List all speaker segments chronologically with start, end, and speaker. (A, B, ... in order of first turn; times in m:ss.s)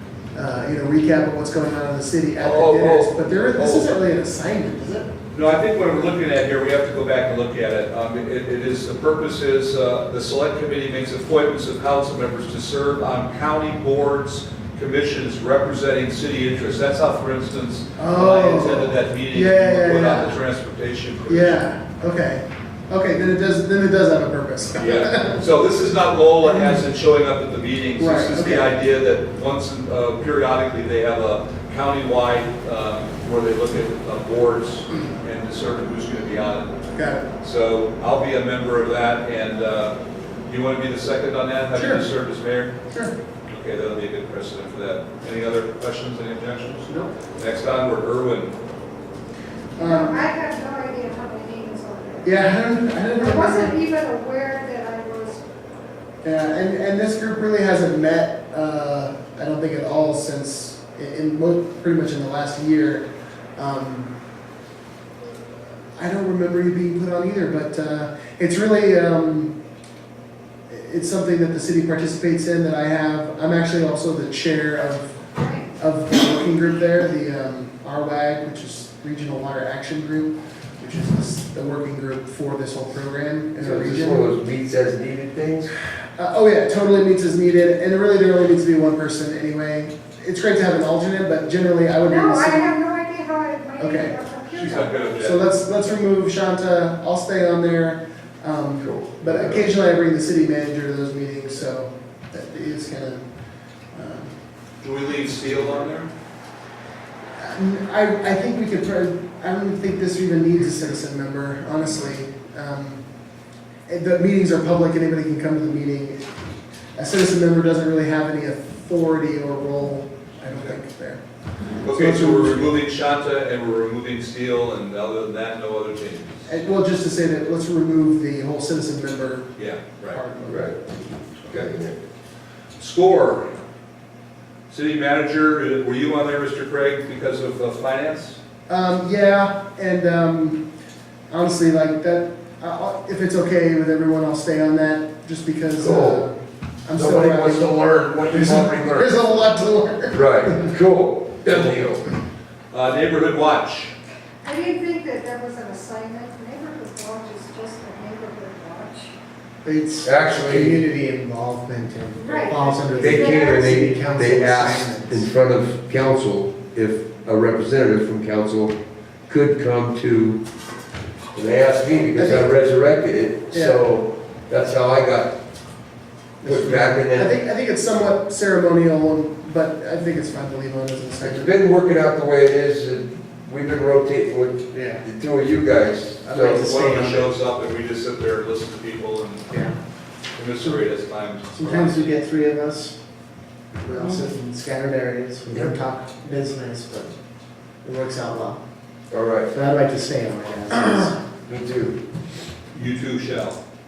0:00.3-0:05.1 A
0:02.4-0:03.9 B
0:05.3-0:21.6 C
0:18.0-0:20.4 A
0:21.3-0:25.4 A
0:24.8-0:36.9 C
0:26.4-0:26.8 A
0:28.0-0:28.7 A
0:36.9-0:37.3 A
0:37.4-0:42.7 C
0:41.7-0:42.0 A
0:42.9-0:43.1 A
0:43.5-0:48.5 C
0:49.8-0:50.3 A
0:49.8-0:52.4 D
0:52.2-0:53.7 A
0:53.1-0:55.4 D
0:56.2-1:03.0 A
1:03.6-1:04.1 A
1:06.0-1:09.5 A
1:10.7-1:15.2 A
1:15.4-1:15.7 D
1:15.8-1:24.3 A
1:23.6-1:25.7 B
1:26.2-1:32.7 A
1:32.0-1:35.2 D
1:33.8-1:34.2 A
1:34.5-1:35.5 C
1:35.2-1:43.2 A
1:38.8-1:39.7 B
1:43.9-1:44.3 A
1:44.8-1:46.1 C
1:47.4-1:53.0 A
1:53.9-1:56.2 A
1:57.0-2:01.2 A
2:01.8-2:02.8 A
2:01.8-2:06.4 C
2:06.4-2:09.5 A
2:09.6-2:10.2 C
2:10.1-2:10.9 A
2:10.4-2:10.8 B
2:11.5-2:12.0 B
2:12.8-2:13.6 C
2:14.7-2:18.4 C
2:18.7-2:20.6 A
2:21.3-2:27.7 A
2:25.8-2:26.2 B
2:26.9-2:29.1 B
2:28.3-2:30.7 A
2:30.1-2:32.0 B
2:32.7-2:33.9 C
2:34.4-2:39.1 D
2:39.6-2:45.2 E
2:40.0-2:40.8 B
2:42.2-2:43.7 D
2:43.0-2:48.7 B
2:49.3-2:50.4 B
2:51.3-2:55.3 B
2:52.1-2:52.5 A
2:53.5-2:53.8 A
2:56.4-3:01.5 A
2:56.4-2:57.3 B
3:01.2-3:06.7 B
3:04.7-3:05.0 E
3:06.2-3:07.3 E
3:06.3-3:09.6 C
3:10.3-3:12.1 C
3:11.6-3:12.9 E
3:13.8-3:17.1 E
3:17.8-3:18.6 E
3:19.1-3:19.5 B
3:19.5-3:21.2 E
3:21.4-3:22.0 B
3:22.7-3:23.6 C